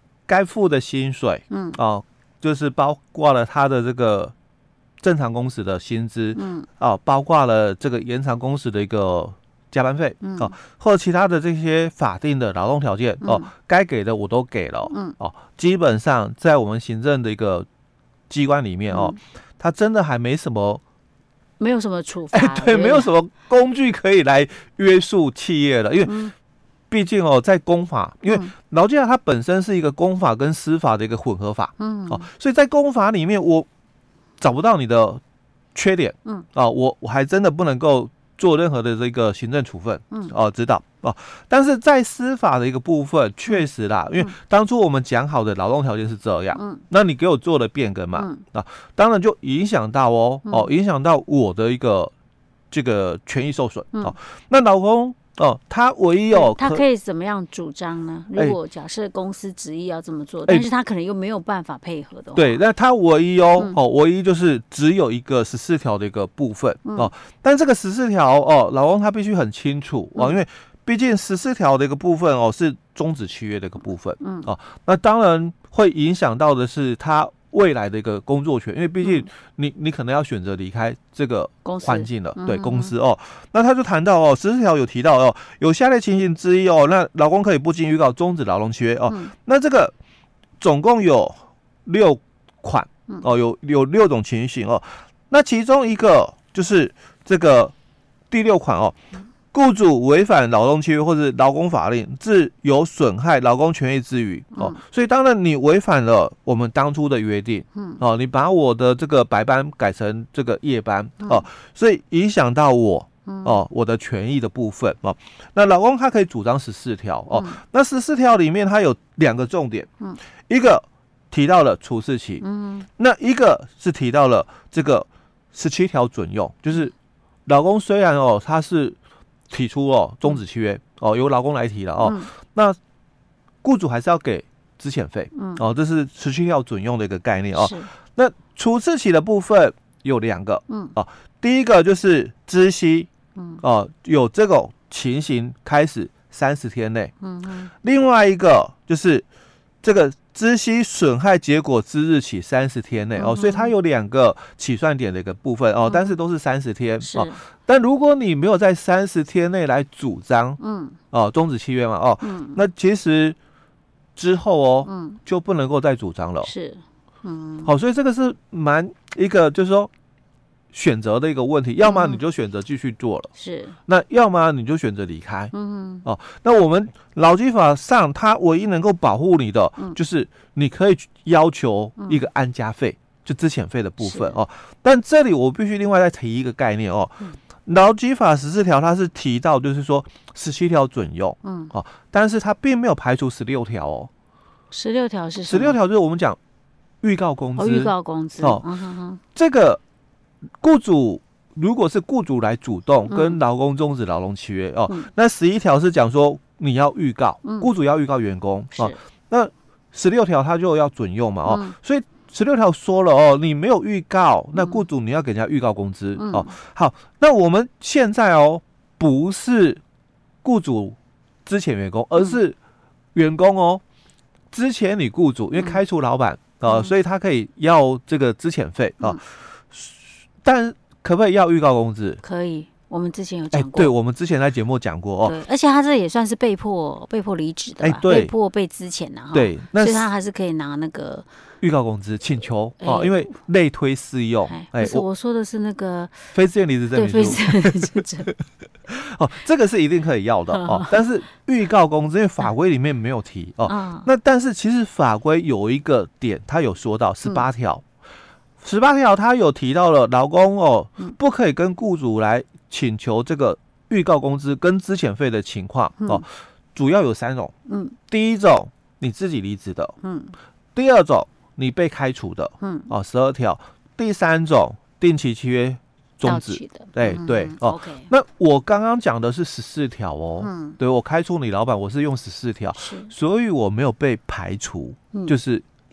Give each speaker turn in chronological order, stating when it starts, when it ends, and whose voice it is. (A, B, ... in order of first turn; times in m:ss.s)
0:00.3-0:04.3 A
0:01.5-0:01.8 B
0:05.0-0:17.7 A
0:06.4-0:06.7 B
0:10.2-0:10.6 B
0:13.2-0:13.5 B
0:14.9-0:15.2 B
0:18.3-0:20.8 A
0:18.9-0:19.2 B
0:21.6-0:23.1 B
0:22.3-0:26.2 A
0:26.0-0:26.3 B
0:26.9-0:33.7 A
0:31.8-0:32.3 B
0:34.4-0:35.2 A
0:35.8-0:52.1 A
0:46.6-0:46.8 B
0:48.2-0:48.4 B
0:52.7-0:56.8 A
0:56.3-1:02.6 B
1:02.4-1:29.9 A
1:14.2-1:14.5 B
1:19.0-1:19.3 B
1:21.6-1:22.9 B
1:30.6-1:37.7 A
1:38.3-1:39.0 A
1:39.5-1:59.9 A
1:47.8-1:48.0 B
1:53.3-1:53.6 B
1:57.3-1:57.6 B
2:00.5-2:02.4 A
2:02.4-2:02.9 B
2:03.0-2:06.9 A
2:07.5-2:09.0 A
2:09.5-2:12.8 A
2:12.0-2:12.3 B
2:13.6-2:23.1 A
2:15.4-2:15.6 B
2:17.6-2:17.9 B
2:20.7-2:20.9 B
2:23.4-2:23.6 B
2:23.6-2:27.1 A
2:27.2-2:27.7 B
2:27.8-2:29.2 A
2:29.8-2:40.6 A
2:33.2-2:33.7 B
2:37.0-2:37.4 B
2:40.6-2:41.0 B
2:41.1-2:43.4 A
2:42.2-2:42.6 B
2:44.2-2:46.5 A
2:44.9-2:45.2 B
2:46.4-2:47.7 B
2:47.6-2:49.9 A
2:50.7-2:53.3 A
2:51.8-2:52.2 B
2:53.4-2:53.8 B
2:53.9-2:55.5 A
2:55.5-2:56.0 B
2:56.0-3:14.1 A
3:04.0-3:04.4 B
3:11.4-3:11.7 B
3:14.7-3:15.8 B
3:15.5-3:16.4 A
3:17.0-3:18.6 A
3:17.6-3:19.2 B
3:19.4-3:19.8 A
3:20.6-3:39.8 A
3:23.1-3:23.4 B
3:31.5-3:31.7 B
3:36.2-3:36.5 B
3:40.4-3:42.6 A
3:43.2-3:43.8 A
3:44.5-3:52.2 A
3:52.2-3:53.9 B
3:53.5-3:55.4 A
3:55.2-4:01.3 B
3:57.8-3:58.3 A
3:59.3-4:00.1 A
4:01.6-4:05.0 A
4:02.8-4:03.3 B
4:04.5-4:06.3 B
4:06.3-4:08.3 A
4:07.0-4:08.3 B
4:08.9-4:17.8 A
4:10.5-4:11.0 B
4:13.7-4:14.1 B
4:18.6-4:27.5 A
4:27.7-4:28.0 B
4:28.1-4:30.0 A
4:30.0-4:30.3 B
4:30.8-4:45.6 A
4:32.6-4:32.9 B
4:36.2-4:38.1 B
4:40.4-4:40.8 B
4:42.8-4:43.1 B